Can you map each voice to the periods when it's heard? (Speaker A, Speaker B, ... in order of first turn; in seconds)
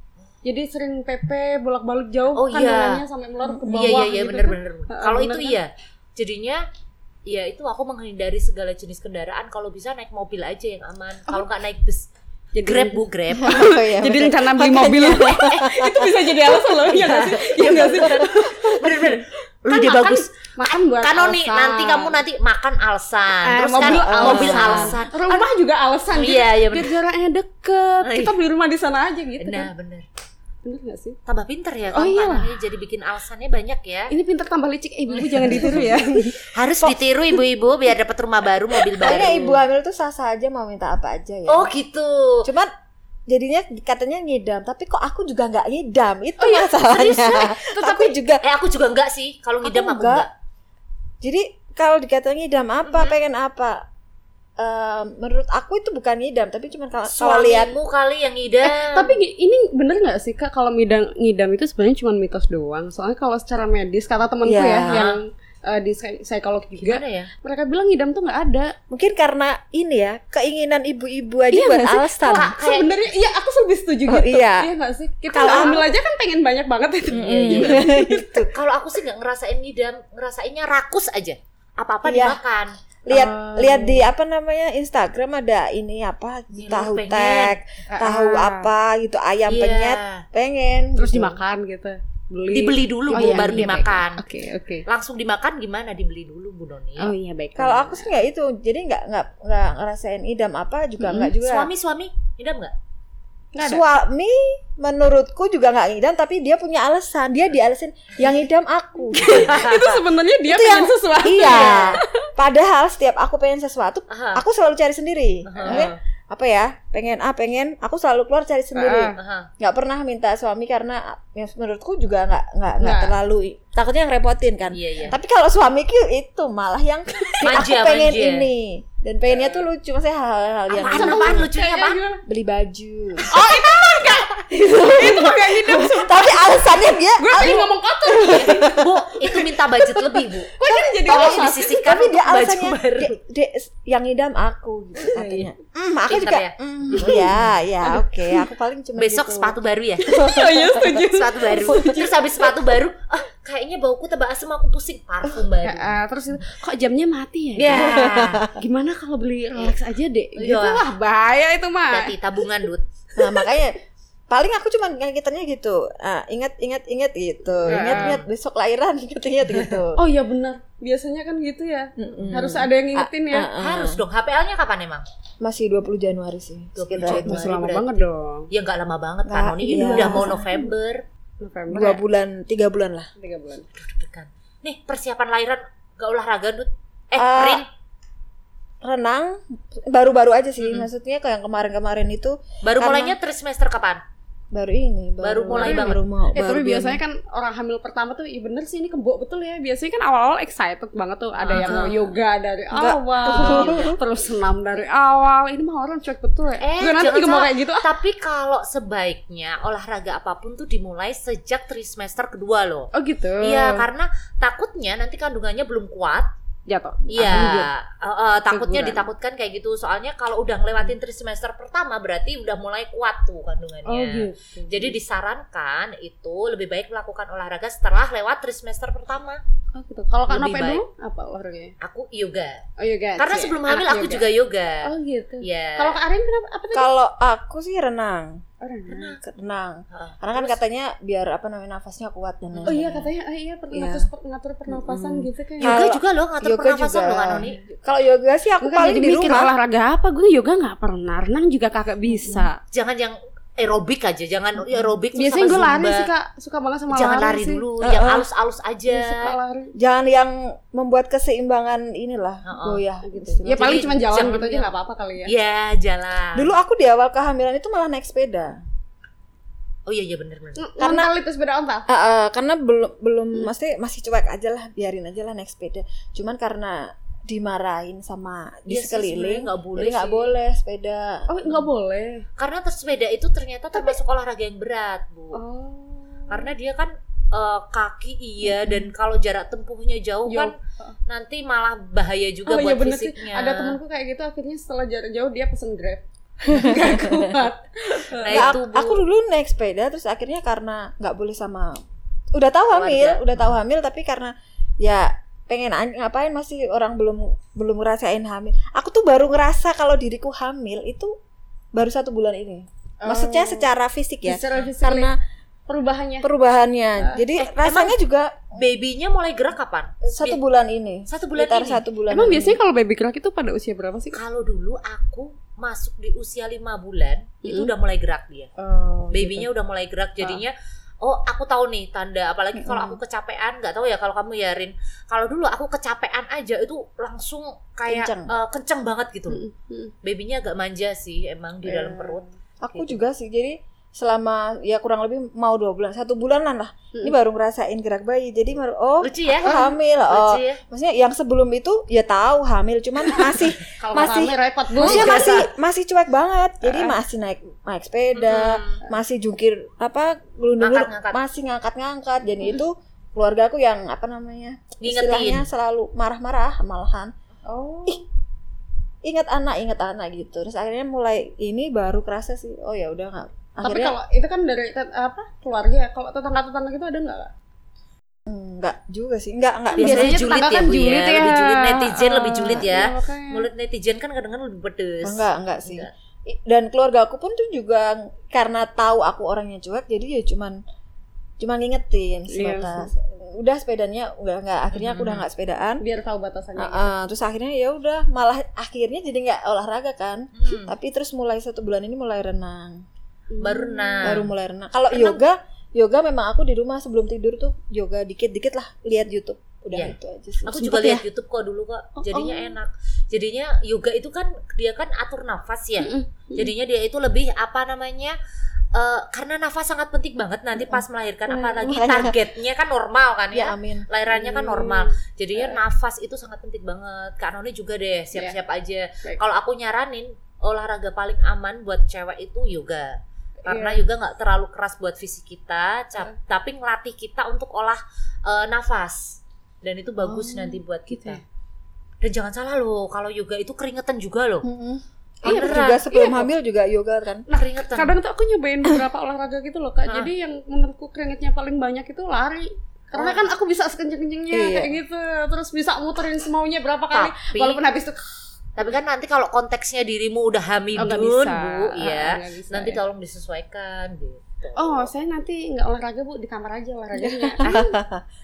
Speaker A: 0.4-5.6, 12.5-18.9, 19.7-22.2, 23.4-29.7, 30.6-31.2, 31.9-32.5, 34.1-36.4, 39.0-39.4, 58.6-68.7, 71.5-78.4, 83.1-84.1, 87.9-88.7, 91.0-94.8, 97.0-98.1, 101.0-101.3, 103.5-103.8, 109.1-112.2, 118.7-119.2, 122.8-123.1, 130.7-132.2, 133.3-138.8, 139.9-141.8, 145.0-145.5, 146.9-147.3, 147.8-148.4, 150.1-152.5, 155.6-162.1, 167.7-168.2, 170.0-173.5, 177.0-178.5, 179.7-180.5, 181.4-182.0, 183.2-183.7, 195.5-207.9, 212.9-213.9, 216.7-217.7, 218.5-219.1, 223.8-224.9, 229.7-231.7, 232.8-234.3, 234.8-236.9, 238.6-239.2, 242.7-245.8, 248.6-252.6, 255.1-257.6, 258.9-259.7, 263.0-265.3, 270.6-271.9, 281.3-282.2, 285.3-286.5, 290.3-290.9, 292.4-298.5, 313.0-313.7, 314.2-315.1, 315.7-316.3, 317.0-317.3, 322.1-324.2, 327.4-327.7, 328.6-329.5, 339.3-339.9, 341.7-342.2, 349.4-349.7, 353.8-355.4, 356.6-356.9, 367.4-368.0, 373.6-377.3, 379.7-383.4, 392.3-392.9, 395.8-396.9, 403.3-404.2, 412.0-412.5, 415.8-416.5, 424.1-425.6, 433.4-433.8, 440.2-441.2, 445.2-446.3, 447.4-458.0, 460.8-462.8, 464.6-467.7
Speaker B: 2.3-3.0, 3.7-6.6, 7.2-12.1, 12.6-13.6, 15.2-15.7, 16.7-25.5, 26.1-26.9, 28.0-28.3, 29.4-30.1, 31.2-34.1, 35.1-36.0, 36.5-39.6, 41.5-42.5, 46.6-50.3, 52.8-53.1, 57.1-59.2, 64.9-65.2, 66.8-67.3, 72.3-73.0, 75.4-75.8, 77.1-77.9, 78.5-82.8, 86.5-87.5, 89.5-90.2, 92.5-94.2, 94.9-97.1, 101.4-102.7, 109.3-109.8, 111.4-112.0, 114.1-114.4, 115.5-116.0, 119.2-119.5, 124.7-125.2, 127.4-128.5, 129.3-129.7, 130.8-132.0, 133.3-134.1, 138.2-140.5, 141.1-143.1, 146.1-147.2, 149.0-150.1, 150.8-156.0, 157.6-158.4, 160.3-160.9, 161.9-162.8, 167.7-168.3, 169.5-169.8, 173.6-175.1, 176.8-181.0, 183.7-187.7, 190.6-190.9, 192.6-194.0, 195.2-196.0, 201.4-202.1, 203.2-203.9, 206.6-216.3, 217.1-229.4, 230.3-230.8, 231.8-232.6, 233.2-234.9, 235.4-236.0, 238.9-239.2, 239.9-240.6, 242.5-242.8, 245.6-247.6, 252.7-256.1, 256.9-259.3, 262.4-262.8, 263.4-266.5, 269.9-270.7, 278.7-280.3, 282.4-285.4, 286.3-290.5, 291.1-293.8, 298.2-299.0, 302.7-303.4, 317.5-318.0, 318.6-320.4, 321.1-321.8, 324.1-328.5, 329.1-339.4, 340.0-342.2, 349.0-350.6, 354.8-355.5, 358.1-358.8, 360.6-361.2, 364.8-365.5, 379.8-385.9, 394.7-395.2, 400.3-400.7, 403.4-404.3, 404.9-405.2, 409.7-418.1, 418.7-441.2, 442.0-444.4, 445.2-445.8, 447.3-448.0, 449.9-450.1, 456.9-457.6, 458.6-464.9, 467.4-467.7
Speaker C: 3.5-3.9, 13.3-16.4, 17.9-19.2, 23.8-24.9, 35.5-37.0, 39.0-41.7, 42.4-42.7, 43.3-48.4, 49.6-50.3, 51.2-53.8, 54.6-57.7, 64.4-65.0, 68.9-72.5, 74.1-74.7, 75.3-75.9, 77.2-78.5, 82.0-82.4, 83.0-91.4, 93.2-93.5, 97.6-101.7, 103.6-131.5, 132.2-133.3, 134.4-138.8, 140.6-150.9, 157.7-158.6, 163.2-163.8, 164.3-170.0, 172.0-174.0, 175.4-177.5, 179.2-180.4, 181.7-183.1, 187.2-187.6, 188.8-193.2, 194.5-197.0, 201.5-201.9, 202.7-204.0, 236.7-238.4, 239.2-243.1, 243.7-244.1, 244.7-249.5, 252.1-252.5, 257.8-258.3, 259.7-263.8, 266.3-268.6, 270.8-271.1, 271.9-281.3, 296.5-297.3, 298.3-301.8, 302.3-311.1, 311.7-315.1, 316.2-318.5, 320.0-322.6, 332.6-333.0, 337.9-338.3, 342.6-367.1, 369.0-373.9, 378.3-380.2, 385.0-390.6, 391.4-395.8, 396.6-402.8, 404.0-411.0, 421.3-422.2, 423.3-423.9, 444.4-447.2, 454.3-454.7, 467.0-468.0